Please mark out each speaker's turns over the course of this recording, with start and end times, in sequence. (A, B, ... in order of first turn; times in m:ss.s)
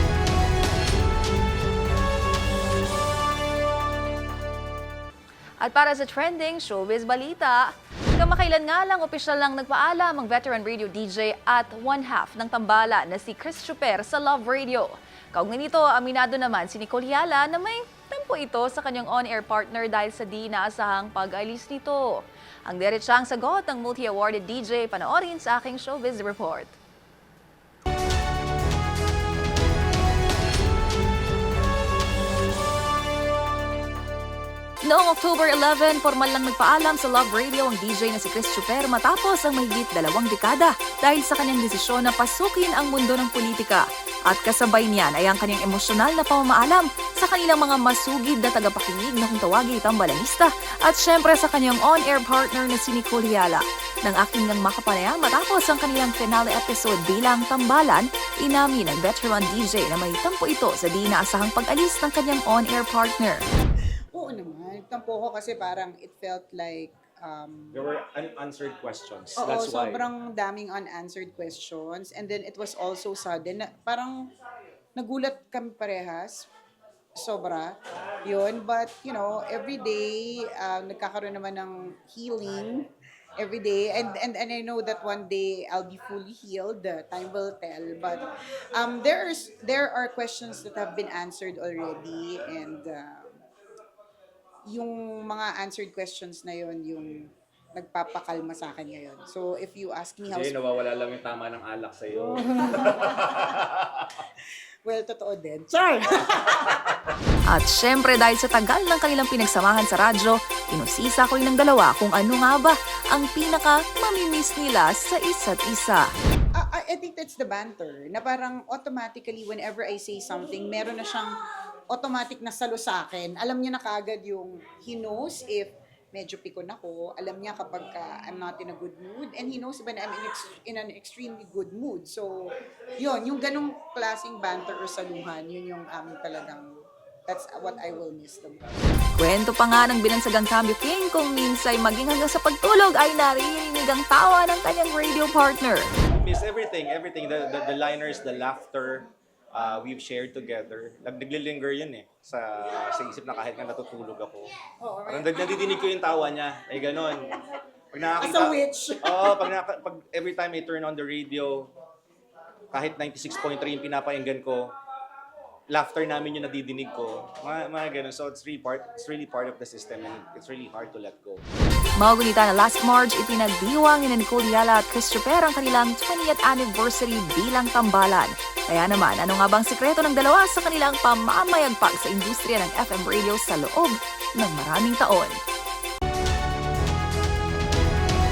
0:05.6-0:07.6 A
0:08.2-0:26.7 A
0:34.8-1:03.5 A
1:04.1-1:07.9 B
1:07.7-1:10.1 C
1:09.4-1:14.2 B
1:15.0-1:16.5 B
1:17.2-1:17.7 B
1:18.3-1:22.9 B
1:23.4-1:28.2 B
1:28.8-1:33.3 B
1:34.7-1:37.2 B
1:37.8-1:40.6 B
1:40.3-1:43.3 C
1:42.2-1:43.5 B
1:44.9-1:46.8 B
1:47.5-1:56.0 A
1:56.6-2:01.3 B
2:01.9-2:12.3 B
2:13.0-2:16.7 B
2:17.3-2:18.6 B
2:19.2-2:25.9 A
2:26.1-2:34.5 C
2:34.8-2:35.9 B
2:35.1-2:37.3 C
2:37.9-2:41.7 C
2:38.1-2:39.6 B
2:42.7-2:44.7 C
2:45.7-2:51.4 C
2:52.0-3:05.4 A